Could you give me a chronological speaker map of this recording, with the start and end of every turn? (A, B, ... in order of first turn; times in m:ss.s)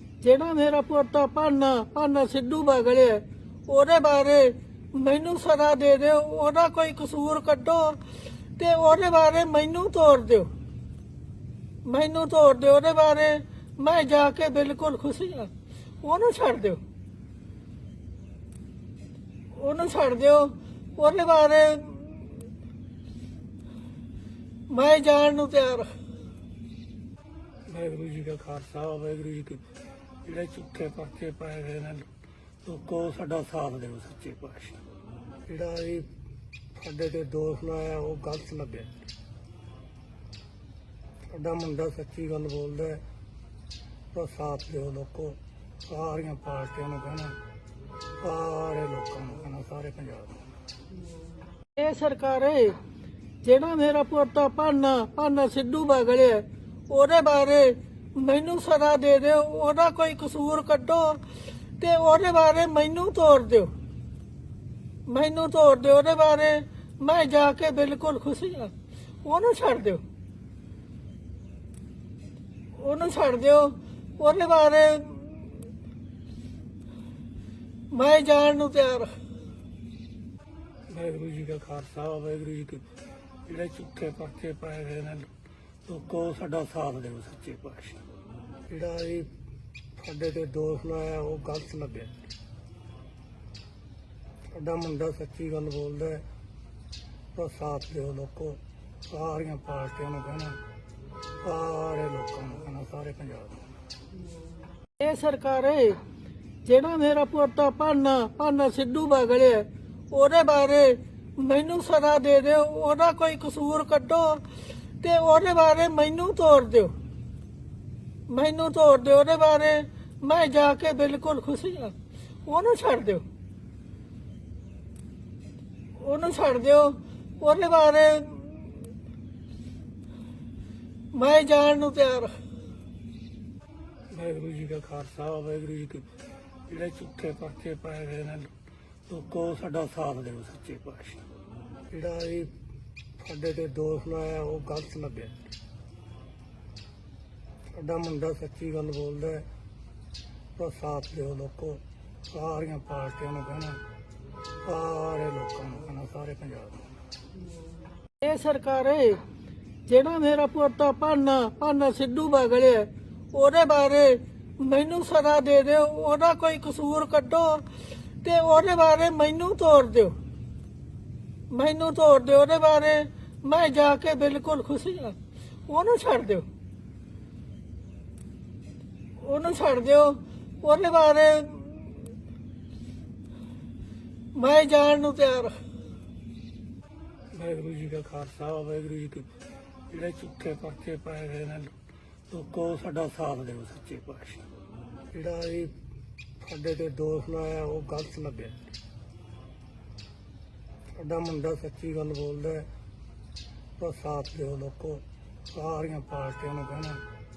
0:00.2-0:08.0 A
0:08.6-0:10.5 A
0:11.8-0:16.8 A
0:19.5-0:22.2 A
0:24.7-0:25.9 A
0:27.7-0:29.6 B
0:30.2-0:32.1 B
0:32.6-0:34.8 B
0:35.5-0:36.1 B
0:36.7-0:38.9 B
0:41.3-0:43.0 B
0:44.1-0:45.4 B
0:45.9-0:47.4 B
0:48.2-0:50.4 B
0:51.8-0:52.8 A
0:53.4-1:01.2 A
1:01.8-1:03.7 A
1:05.1-1:10.0 A
1:12.7-1:15.5 A
1:17.9-1:19.2 A
1:20.9-1:22.8 B
1:23.5-1:25.3 B
1:25.8-1:28.0 B
1:28.7-1:29.3 B
1:30.0-1:32.2 B
1:34.6-1:36.2 B
1:37.4-1:38.6 B
1:39.1-1:40.6 B
1:41.4-1:43.6 B
1:45.0-1:46.0 A
1:46.6-1:54.4 A
1:55.0-1:56.9 A
1:58.3-2:03.2 A
2:06.0-2:08.7 A
2:11.1-2:12.4 A
2:14.1-2:16.1 B
2:16.7-2:18.5 B
2:19.1-2:21.2 B
2:21.9-2:22.5 B
2:23.2-2:25.4 B
2:27.8-2:29.5 B
2:30.6-2:31.8 B
2:32.3-2:33.8 B
2:34.6-2:36.8 B
2:38.2-2:39.2 A
2:39.9-2:47.6 A
2:48.2-2:50.2 A
2:51.5-2:56.5 A
2:59.2-3:01.9 A
3:04.3-3:05.6 A
3:07.3-3:09.3 B
3:09.9-3:11.7 B
3:12.3-3:14.4 B
3:15.1-3:15.7 B
3:16.4-3:18.6 B
3:21.0-3:22.7 B
3:23.8-3:27.0 B